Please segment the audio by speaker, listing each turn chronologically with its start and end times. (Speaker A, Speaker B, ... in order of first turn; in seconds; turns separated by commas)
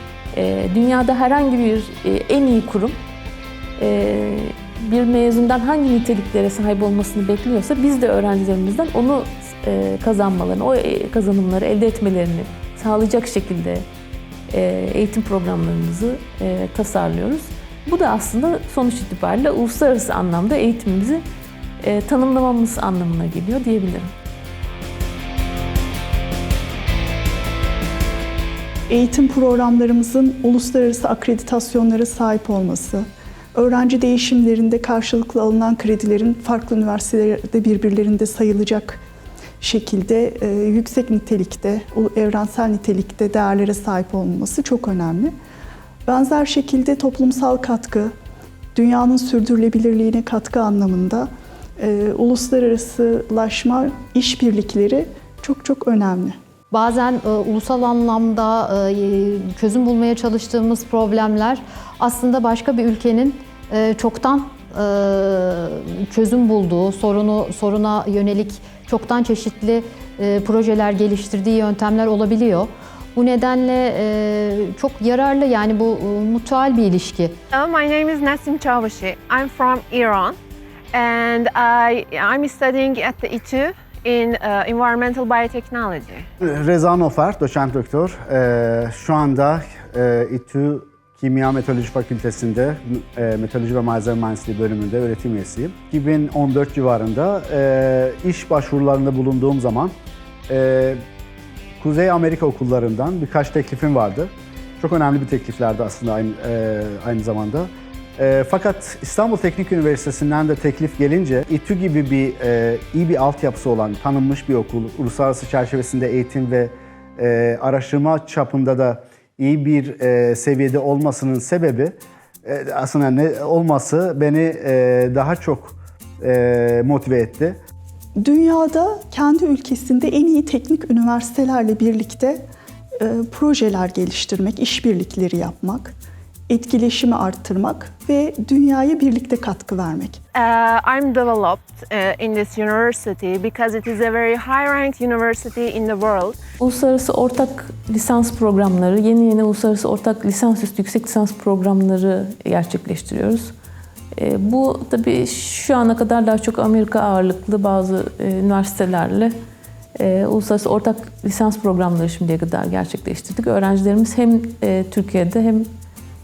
Speaker A: 0.3-3.0, Speaker A: 3.8-13.8, Speaker A: 14.5-21.2, Speaker A: 21.8-24.1, Speaker B: 28.9-39.0, Speaker B: 39.6-45.4, Speaker B: 46.1-48.1, Speaker B: 48.8-56.4, Speaker C: 56.7-77.3, Speaker D: 77.5-80.4, Speaker D: 80.9-86.3, Speaker E: 86.4-99.9, Speaker E: 100.5-101.0, Speaker E: 101.8-127.6, Speaker B: 128.2-132.5, Speaker B: 133.0-135.9, Speaker B: 136.5-140.2, Speaker D: 140.3-146.4, Speaker A: 146.6-153.5, Speaker A: 154.2-159.3, Speaker A: 160.0-165.7